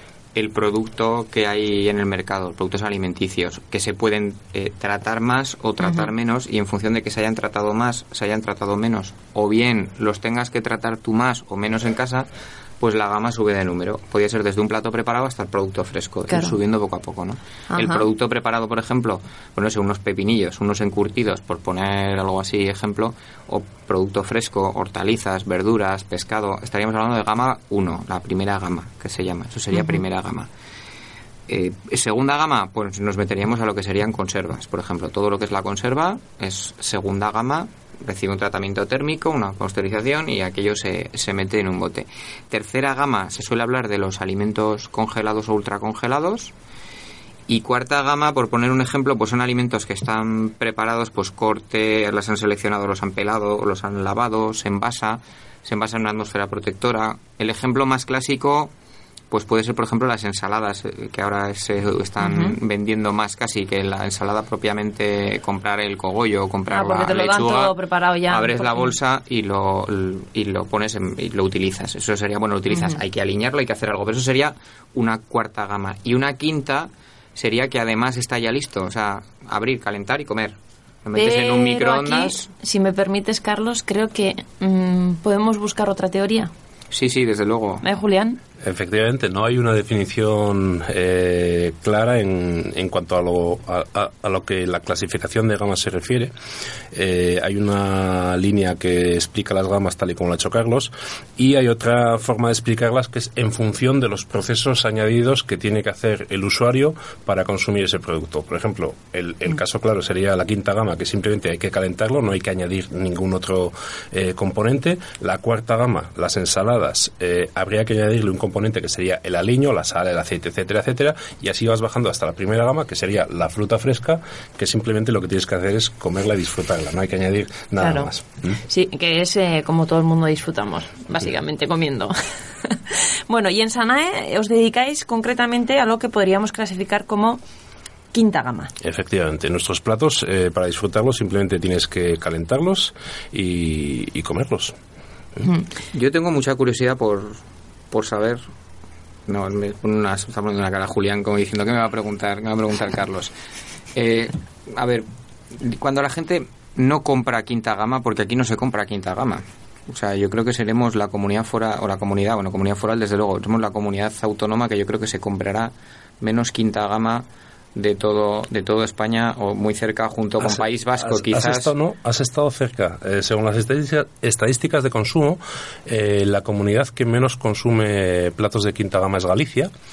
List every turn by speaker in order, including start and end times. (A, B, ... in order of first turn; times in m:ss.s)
0:00.3-0:12.3 A
0:12.8-0:30.5 A
0:16.3-0:16.5 B
0:17.7-0:18.0 B
0:29.7-0:30.0 B
0:31.5-0:46.5 A
0:47.5-0:58.7 A
0:59.3-1:07.8 A
1:02.2-1:02.6 B
1:06.7-1:08.9 B
1:08.3-1:22.5 A
1:12.7-1:13.0 B
1:21.1-1:26.5 B
1:26.9-1:27.8 A
1:27.8-1:28.4 B
1:28.6-1:36.3 C
1:36.9-2:08.6 C
2:07.8-2:17.4 B
2:18.1-2:18.7 B
2:18.8-2:24.8 C
2:25.9-2:28.4 A
2:29.3-2:33.3 A
2:33.9-2:51.7 A
2:50.4-2:59.7 C